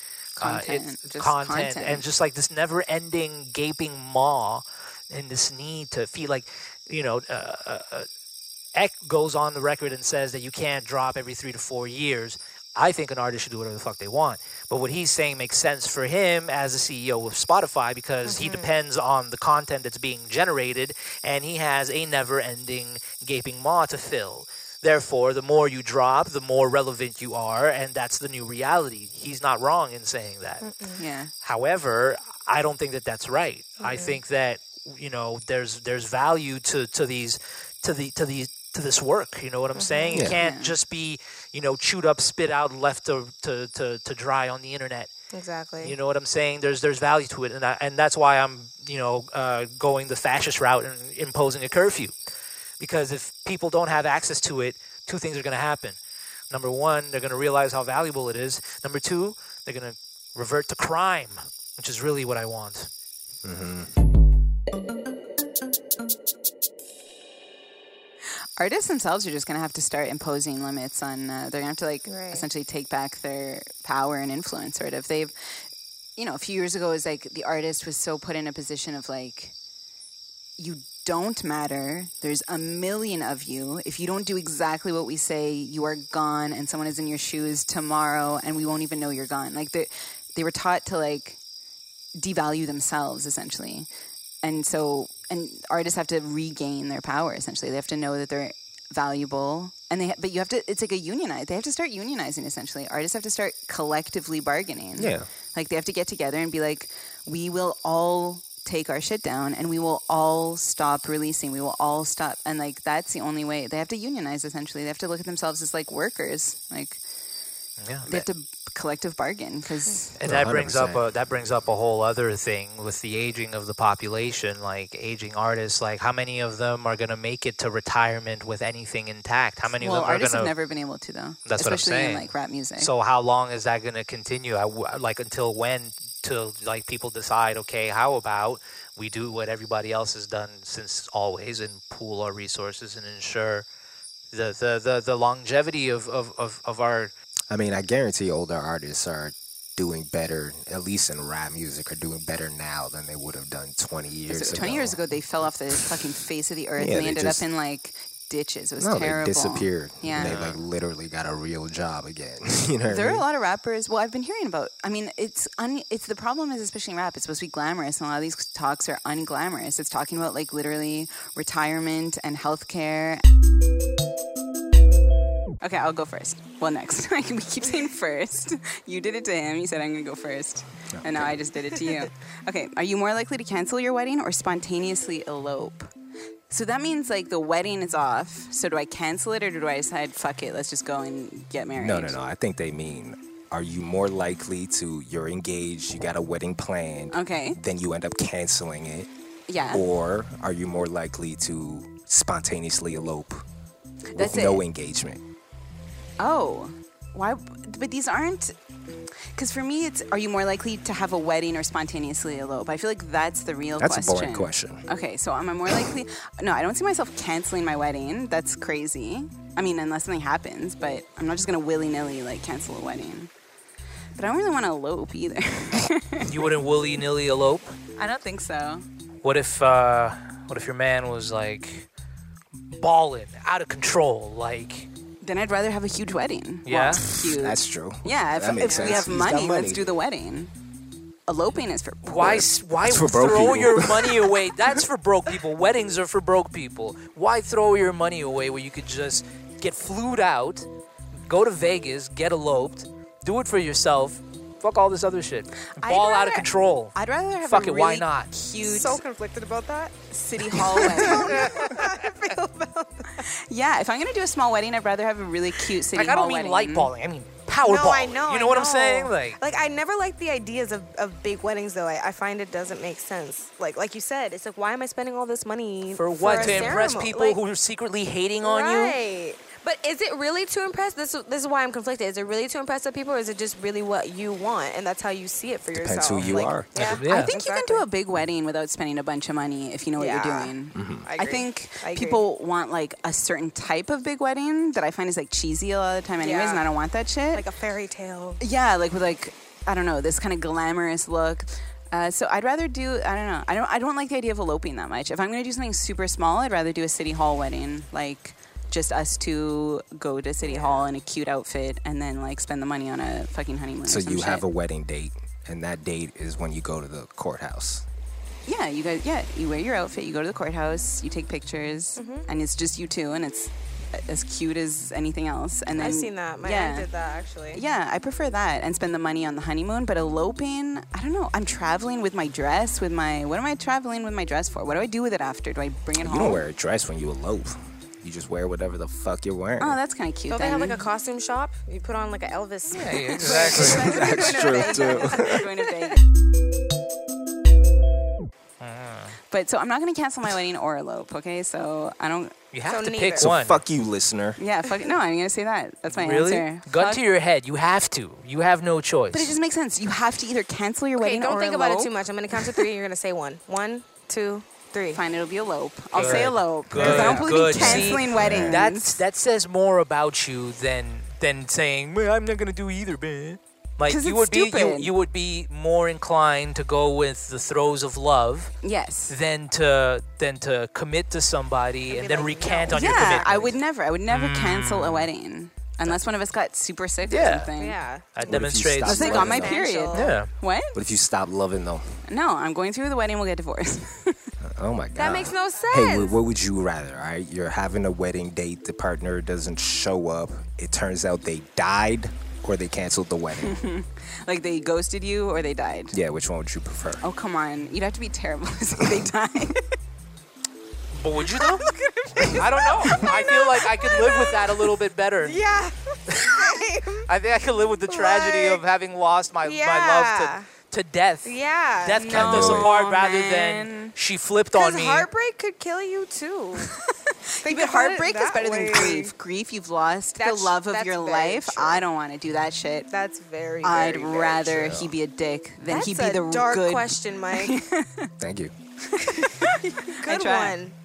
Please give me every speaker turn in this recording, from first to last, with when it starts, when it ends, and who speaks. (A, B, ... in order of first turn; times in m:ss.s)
0:00.4-0:02.0 A
0:00.4-0:08.1 B
0:08.8-0:30.6 B
0:18.2-0:18.7 C
0:30.6-0:31.0 C
0:31.0-0:31.3 A
0:31.4-0:45.1 B
0:33.8-0:34.2 C
0:39.8-0:40.2 C
0:40.4-0:40.8 A
0:45.3-0:46.0 C
0:45.8-0:52.1 B
0:52.8-0:56.0 B
0:56.5-1:02.9 B
1:03.4-1:03.9 D
1:08.6-1:15.3 A
1:12.1-1:12.5 C
1:16.2-1:19.5 A
1:20.6-1:31.4 A
1:32.2-1:33.9 A
1:34.4-1:57.0 A
1:45.0-1:45.3 D
1:57.8-1:58.3 B
1:58.1-2:00.1 A
2:00.2-2:10.5 B
2:00.2-2:01.0 D
2:09.8-2:12.9 A
2:11.5-2:23.7 B
2:24.3-2:27.1 B
2:27.5-2:35.0 D
2:34.3-2:40.4 A
2:36.8-2:37.4 D
2:38.8-2:43.2 D
2:40.2-2:40.6 B
2:42.9-2:53.2 A
2:55.6-3:05.9 A
3:00.9-3:01.4 D
3:06.5-3:12.2 A
3:11.8-3:23.4 D
3:17.1-3:17.6 A
3:19.5-3:19.8 A
3:24.1-3:24.6 A
3:24.2-3:25.2 D
3:26.2-3:28.6 A
3:29.3-3:43.3 A
3:33.8-3:34.8 D
3:44.2-3:46.3 A
3:46.2-3:47.8 B
3:48.0-3:48.8 A
3:49.2-3:51.9 B
3:52.6-3:54.9 B
3:55.2-4:00.5 A
3:56.7-3:57.0 B
3:57.0-3:59.9 D
4:01.3-4:02.4 A
4:02.1-4:10.7 B
4:02.8-4:04.4 D
4:11.3-4:18.3 B
4:15.8-4:19.0 A
4:18.6-4:20.0 C
4:20.1-4:21.7 A
4:20.5-4:23.3 C
4:21.4-4:21.8 B
4:23.2-4:26.9 A
4:26.0-4:29.4 B
4:27.6-4:37.4 C
4:35.9-4:39.0 B
4:36.4-4:36.7 D
4:38.4-4:47.9 C
4:45.7-4:46.7 D
4:46.2-4:47.3 B
4:47.1-4:57.4 A
4:50.0-4:52.2 C
4:50.7-4:51.1 D
4:56.2-4:56.7 C
4:57.3-4:58.4 C
4:58.4-5:14.5 A
5:10.4-5:10.9 C
5:13.9-5:17.8 D
5:18.5-5:26.9 A
5:22.0-5:22.3 C
5:25.8-5:27.6 C
5:27.5-5:36.4 A
5:36.0-5:39.8 D
5:39.6-5:40.8 A
5:40.3-5:46.0 C
5:42.7-5:43.9 B
5:43.3-5:46.0 A
5:43.5-5:45.4 D
5:48.6-5:49.2 B
5:49.3-5:52.4 A
5:52.5-5:53.6 B
5:52.7-5:53.3 C
5:53.2-5:54.4 D
5:54.4-5:57.0 A
5:55.9-5:59.3 B
5:59.1-6:02.6 A
6:01.0-6:05.0 C
6:04.9-6:09.0 A
6:05.9-6:18.5 B
6:06.0-6:06.2 C
6:06.7-6:08.6 D
6:13.9-6:14.9 A
6:18.6-6:19.2 A
6:19.1-6:23.6 B
6:21.9-6:23.5 C
6:22.7-6:27.8 A
6:24.1-6:25.1 B
6:27.1-6:27.5 B
6:27.6-6:30.2 C
6:28.2-6:29.2 B
6:28.2-6:29.6 D
6:28.9-6:30.8 A
6:29.9-6:30.3 B
6:30.7-6:32.0 D
6:32.1-6:34.3 A
6:34.4-6:43.6 D
6:35.0-6:36.2 C
6:43.4-6:46.0 A
6:45.9-6:47.0 D
6:47.0-6:49.7 A
6:51.0-6:51.7 B
6:51.4-6:57.1 C
6:52.3-6:55.4 B
6:57.1-7:05.1 B
6:57.9-6:58.6 C
6:59.4-7:00.5 C
7:01.2-7:02.4 C
7:02.0-7:03.9 A
7:02.2-7:02.7 D
7:04.6-7:06.8 C
7:07.1-7:12.9 A
7:07.4-7:09.1 C
7:10.2-7:11.8 C
7:12.9-7:14.8 C
7:13.6-7:18.1 A
7:14.6-7:14.9 D
7:15.7-7:17.6 C
7:18.2-7:18.5 D
7:19.0-7:20.6 A
7:19.2-7:20.8 C